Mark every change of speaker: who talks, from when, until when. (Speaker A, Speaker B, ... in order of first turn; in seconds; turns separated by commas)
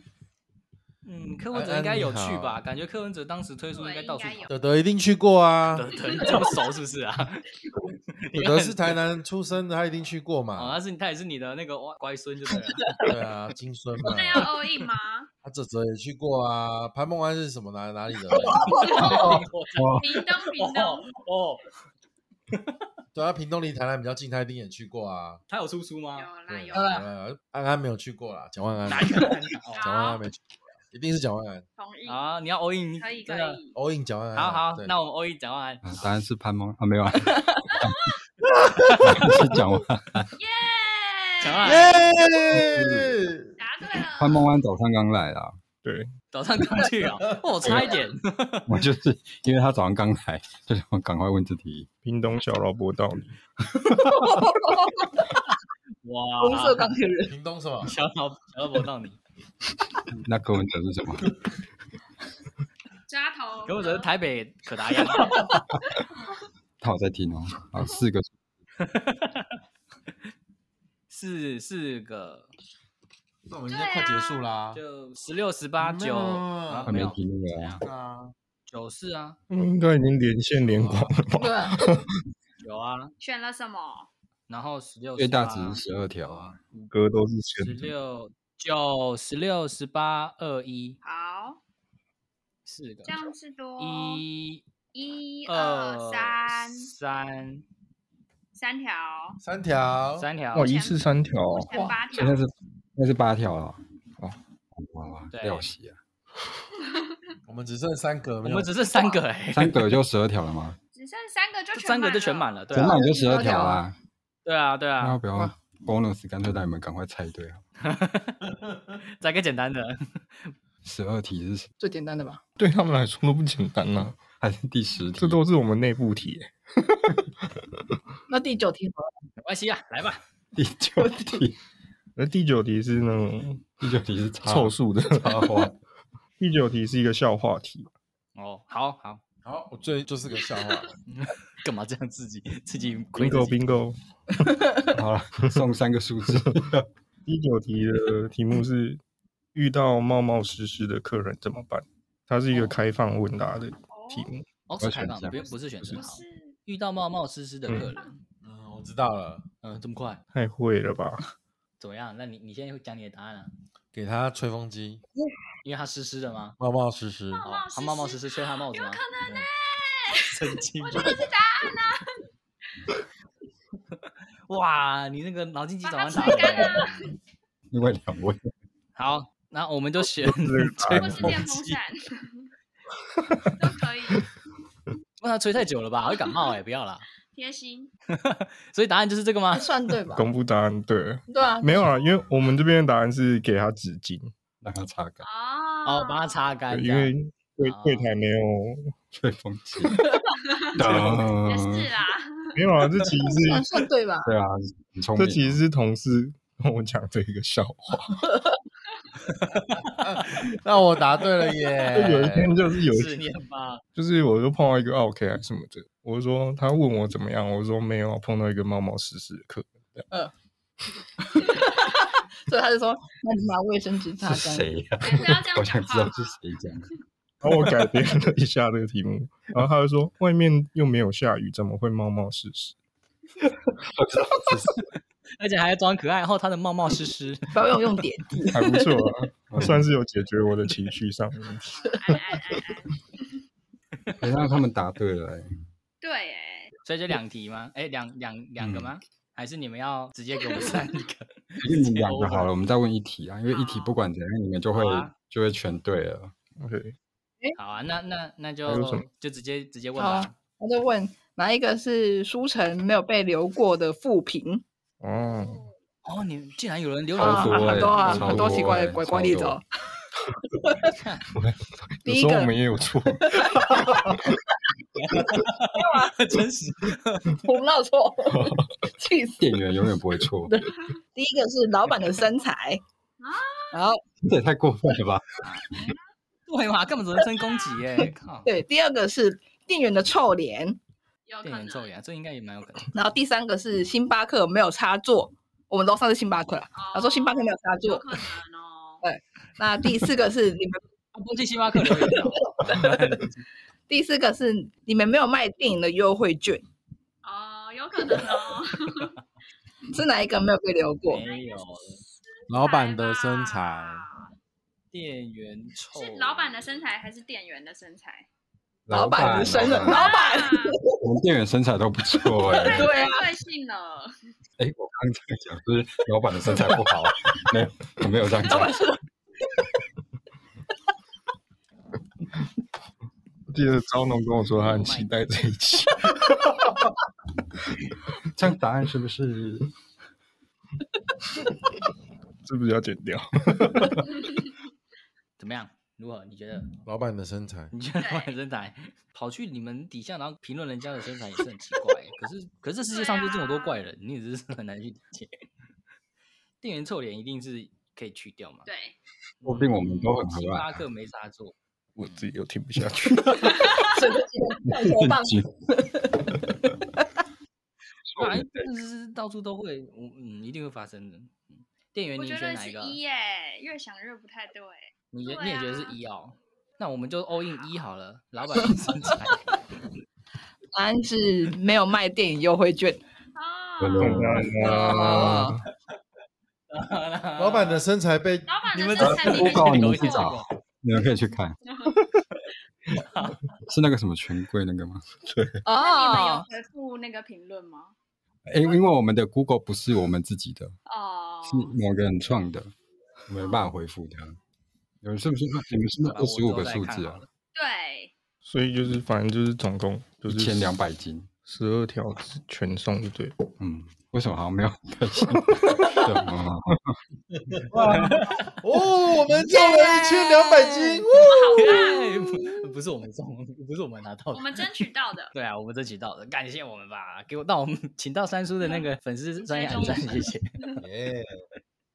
Speaker A: 1.0-4.5, Speaker B: 1.5-2.6, Speaker C: 3.7-4.5, Speaker B: 4.5-6.0, Speaker A: 5.7-9.0, Speaker C: 6.0-6.6, Speaker B: 8.3-10.8, Speaker A: 10.6-12.9, Speaker B: 13.1-14.5, Speaker C: 14.0-15.3, Speaker B: 15.4-18.7, Speaker A: 18.3-21.6, Speaker D: 18.4-19.1, Speaker C: 18.8-21.1, Speaker E: 19.0-20.1, Speaker A: 22.5-22.8, Speaker B: 23.1-25.4, Speaker A: 25.5-26.3, Speaker C: 26.1-27.1, Speaker B: 26.5-31.6, Speaker D: 26.7-27.0, Speaker A: 28.9-30.0, Speaker C: 29.8-30.2, Speaker C: 31.8-32.2, Speaker A: 32.0-33.6, Speaker C: 33.0-33.8, Speaker B: 33.7-34.9, Speaker A: 34.3-36.0, Speaker E: 35.8-38.0, Speaker B: 38.4-39.3, Speaker A: 38.8-39.4, Speaker E: 39.0-40.3, Speaker C: 40.4-42.1, Speaker A: 41.4-42.1, Speaker B: 41.6-43.6, Speaker E: 42.5-43.1, Speaker C: 43.6-44.5, Speaker E: 44.2-45.6, Speaker F: 45.8-46.1, Speaker A: 46.3-48.8, Speaker E: 48.7-51.9, Speaker F: 52.0-53.3, Speaker D: 53.9-55.3, Speaker A: 56.0-56.9, Speaker D: 56.4-57.3, Speaker B: 57.3-57.9, Speaker A: 57.8-59.2, Speaker E: 60.2-61.3, Speaker C: 63.1-64.1, Speaker A: 63.6-65.5, Speaker E: 66.8-68.3, Speaker A: 68.8-69.5, Speaker A: 71.1-72.5, Speaker B: 73.5-74.8, Speaker C: 73.7-74.5, Speaker A: 74.7-77.8, Speaker B: 75.8-77.0, Speaker E: 76.9-77.8, Speaker B: 77.8-78.3, Speaker A: 78.7-79.4, Speaker F: 79.5-82.1, Speaker B: 80.6-81.2, Speaker D: 81.3-81.9, Speaker A: 82.6-83.1, Speaker C: 83.2-84.1, Speaker A: 84.5-86.9, Speaker E: 85.2-86.6, Speaker F: 86.9-87.9, Speaker A: 87.6-91.0, Speaker C: 91.0-91.6, Speaker A: 92.7-93.3, Speaker C: 93.0-94.2, Speaker A: 93.8-94.6, Speaker C: 94.9-96.9, Speaker A: 95.5-97.6, Speaker C: 98.5-99.4, Speaker B: 99.4-100.3, Speaker A: 100.2-100.7, Speaker F: 100.5-101.7, Speaker C: 100.5-102.4, Speaker D: 101.7-102.0, Speaker E: 102.1-103.8, Speaker E: 104.7-106.0, Speaker A: 105.3-105.7, Speaker C: 106.8-107.3, Speaker B: 107.5-108.7, Speaker A: 108.4-109.8, Speaker E: 109.5-110.8, Speaker C: 110.9-112.5, Speaker A: 111.7-113.0, Speaker E: 112.7-114.0, Speaker D: 112.8-113.9, Speaker A: 114.4-115.2, Speaker E: 115.0-117.6, Speaker A: 117.8-118.5, Speaker A: 119.0-120.5, Speaker E: 120.8-121.7, Speaker D: 121.8-122.4, Speaker F: 122.6-124.2, Speaker E: 124.4-125.4, Speaker F: 125.2-126.5, Speaker D: 128.3-129.1, Speaker A: 129.4-130.2, Speaker E: 130.5-131.6, Speaker D: 131.0-131.4, Speaker F: 132.2-133.8, Speaker E: 133.8-135.7, Speaker F: 134.4-135.4, Speaker F: 136.4-137.9, Speaker A: 138.3-139.2, Speaker B: 139.4-140.9, Speaker A: 141.1-143.6, Speaker F: 143.1-144.6, Speaker E: 144.9-146.9, Speaker F: 147.2-149.0, Speaker F: 149.5-154.4, Speaker C: 153.9-154.3, Speaker A: 154.7-158.2, Speaker E: 154.8-155.4, Speaker C: 155.3-156.6, Speaker B: 158.4-159.4, Speaker A: 159.6-160.2, Speaker F: 160.3-161.3, Speaker A: 161.8-163.5, Speaker B: 163.9-165.0, Speaker A: 165.6-166.6, Speaker B: 166.6-167.4, Speaker C: 167.3-172.2, Speaker A: 167.4-169.0, Speaker A: 170.3-171.2, Speaker A: 173.9-177.1, Speaker C: 175.8-177.1, Speaker E: 177.7-178.5, Speaker A: 178.9-181.8, Speaker F: 180.0-181.4, Speaker C: 181.0-182.5, Speaker C: 183.5-184.3, Speaker A: 185.2-187.0, Speaker C: 187.3-187.9, Speaker A: 188.1-189.7, Speaker D: 189.6-190.3, Speaker F: 190.1-194.3, Speaker D: 191.3-191.8, Speaker E: 194.6-195.3, Speaker C: 195.2-196.3, Speaker A: 195.8-198.1, Speaker F: 196.7-198.9, Speaker E: 199.1-200.0, Speaker D: 199.9-200.2, Speaker C: 200.4-202.6, Speaker E: 200.7-201.9, Speaker F: 200.8-201.3, Speaker F: 202.6-203.9, Speaker D: 203.4-204.3, Speaker E: 204.2-205.6, Speaker F: 205.2-208.2, Speaker D: 208.2-208.6, Speaker A: 209.3-210.5, Speaker B: 209.8-212.6, Speaker F: 211.9-213.2, Speaker A: 212.8-213.8, Speaker F: 213.9-220.1, Speaker D: 221.4-224.7, Speaker E: 224.2-226.9, Speaker C: 225.0-226.4, Speaker F: 227.4-232.7, Speaker E: 233.4-234.9, Speaker A: 235.3-237.5, Speaker D: 237.5-239.0, Speaker F: 238.4-241.7, Speaker E: 239.5-239.9, Speaker C: 241.7-243.4, Speaker D: 241.9-242.2, Speaker E: 244.2-245.6, Speaker C: 246.0-246.7, Speaker A: 246.8-252.5, Speaker E: 248.6-248.9, Speaker C: 250.5-250.8, Speaker E: 251.6-256.3, Speaker C: 253.5-254.0, Speaker A: 254.7-255.1, Speaker F: 256.6-256.9, Speaker A: 257.6-260.3, Speaker F: 258.6-259.0, Speaker D: 260.0-264.6, Speaker F: 265.0-265.6, Speaker C: 265.1-265.7, Speaker A: 266.0-268.3, Speaker E: 267.2-269.6, Speaker D: 267.2-269.6, Speaker F: 268.1-268.6, Speaker A: 270.8-271.2, Speaker F: 272.0-274.4, Speaker D: 272.1-272.5, Speaker D: 273.2-274.0, Speaker A: 274.9-277.4, Speaker D: 275.7-276.2, Speaker D: 277.4-279.4, Speaker E: 278.3-278.6, Speaker E: 279.4-280.5, Speaker D: 280.5-282.8, Speaker C: 283.2-283.9, Speaker D: 283.7-284.0, Speaker E: 284.2-285.3, Speaker A: 285.4-285.8, Speaker A: 286.5-288.5, Speaker C: 287.4-287.8, Speaker D: 288.4-290.8, Speaker C: 291.3-291.9, Speaker A: 291.4-292.9, Speaker D: 292.9-298.3, Speaker C: 296.7-299.0, Speaker D: 299.0-300.8, Speaker A: 301.1-303.4, Speaker D: 301.7-303.2, Speaker D: 303.9-306.6, Speaker C: 307.2-309.1, Speaker D: 309.9-311.2, Speaker A: 311.1-312.0, Speaker C: 311.2-314.3, Speaker B: 312.5-314.1, Speaker A: 314.9-316.9, Speaker C: 315.9-318.3, Speaker E: 318.9-320.2, Speaker D: 318.9-321.0, Speaker C: 319.8-320.8, Speaker E: 321.0-322.9, Speaker D: 322.3-323.3, Speaker C: 322.4-324.2, Speaker E: 324.6-328.8, Speaker D: 328.4-329.0, Speaker F: 333.5-336.7, Speaker A: 334.6-335.2, Speaker E: 338.2-339.7, Speaker F: 342.4-344.3, Speaker A: 345.4-346.7, Speaker B: 346.9-347.7, Speaker A: 347.7-355.4, Speaker C: 348.0-348.3, Speaker C: 352.9-353.8, Speaker A: 356.6-358.7, Speaker C: 358.6-359.0, Speaker A: 359.4-361.5, Speaker E: 359.4-360.8, Speaker F: 362.0-363.9, Speaker D: 363.5-366.7, Speaker C: 363.6-363.9, Speaker E: 364.6-365.5, Speaker E: 368.1-368.6, Speaker A: 368.2-373.0, Speaker C: 372.2-376.0, Speaker A: 375.1-379.5, Speaker D: 380.7-383.0, Speaker C: 383.3-384.5, Speaker E: 383.8-385.5, Speaker F: 384.0-385.6, Speaker D: 384.6-385.6, Speaker A: 386.7-387.9, Speaker B: 387.4-388.5, Speaker C: 388.5-390.3, Speaker A: 388.7-390.5, Speaker E: 389.0-391.6, Speaker C: 391.6-392.0, Speaker A: 393.0-393.4, Speaker E: 393.7-395.0, Speaker F: 395.2-395.6, Speaker D: 395.6-396.5, Speaker C: 395.8-397.9, Speaker E: 398.4-400.8, Speaker C: 400.9-401.7, Speaker E: 401.4-402.7, Speaker E: 403.3-404.4, Speaker C: 403.4-403.6, Speaker E: 405.0-407.2, Speaker A: 406.0-407.3, Speaker C: 407.5-408.1, Speaker F: 408.4-410.8, Speaker E: 410.3-411.3, Speaker F: 411.4-413.4, Speaker E: 413.6-417.0, Speaker F: 415.5-416.1, Speaker B: 417.5-422.6, Speaker A: 417.8-418.5, Speaker C: 419.5-422.3, Speaker A: 421.1-424.6, Speaker C: 424.3-425.3, Speaker A: 425.3-430.6, Speaker C: 429.4-430.8, Speaker B: 430.8-431.3